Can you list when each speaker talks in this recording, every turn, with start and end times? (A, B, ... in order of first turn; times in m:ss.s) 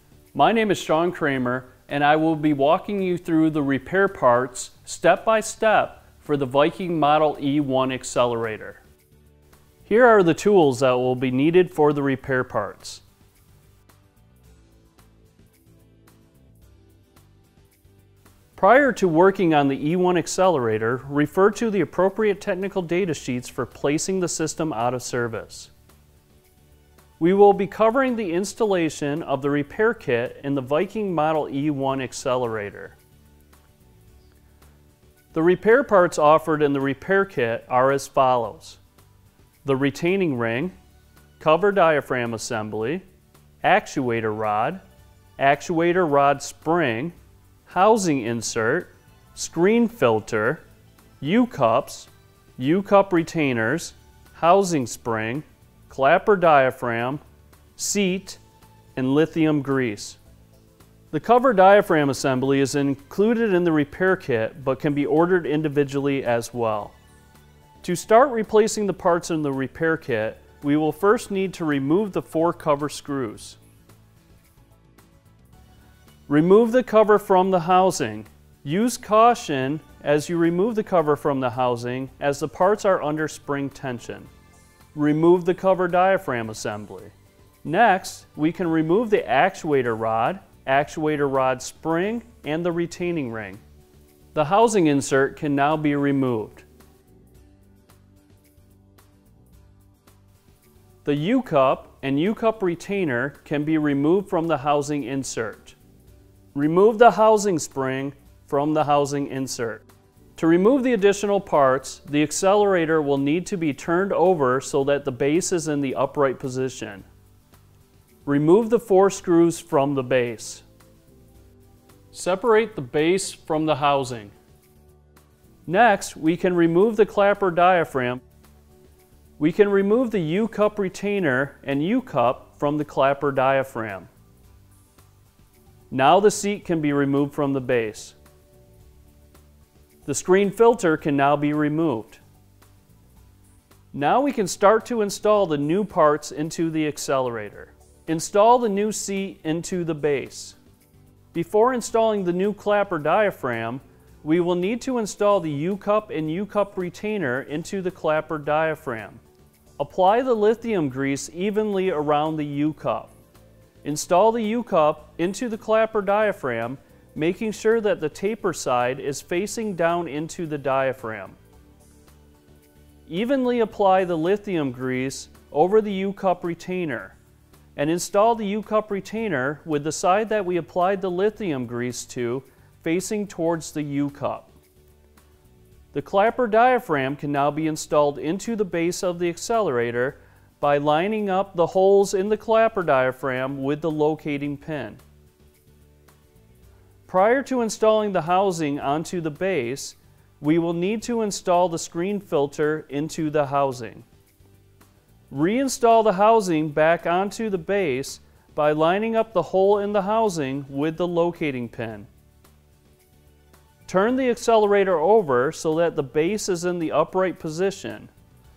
0:00.3-0:08.8 A
0:09.8-0:13.0 A
0:18.6-0:25.7 A
0:27.2-0:33.0 A
0:35.3-0:38.8 A
0:39.6-0:40.7 A
0:41.4-0:43.0 A
0:43.6-0:44.8 A
0:45.4-0:47.2 A
0:47.7-0:50.6 A
0:51.2-0:57.2 A
0:57.8-0:58.4 A
0:59.0-1:00.2 A
1:01.1-1:07.0 A
1:07.8-1:13.6 A
1:16.3-1:24.3 A
1:24.9-1:33.6 A
1:34.3-1:36.6 A
1:41.0-1:45.8 A
1:46.5-1:49.8 A
1:50.4-1:57.0 A
1:58.2-2:00.6 A
2:02.1-2:04.3 A
2:05.7-2:08.2 A
2:09.4-2:14.1 A
2:15.9-2:18.2 A
2:20.0-2:22.2 A
2:23.9-2:30.6 A
2:31.3-2:39.2 A
2:39.8-2:43.1 A
2:43.8-2:51.4 A
2:53.0-2:57.2 A
2:57.8-3:04.5 A
3:05.9-3:15.0 A
3:17.0-3:24.0 A
3:25.3-3:32.1 A
3:33.8-3:38.1 A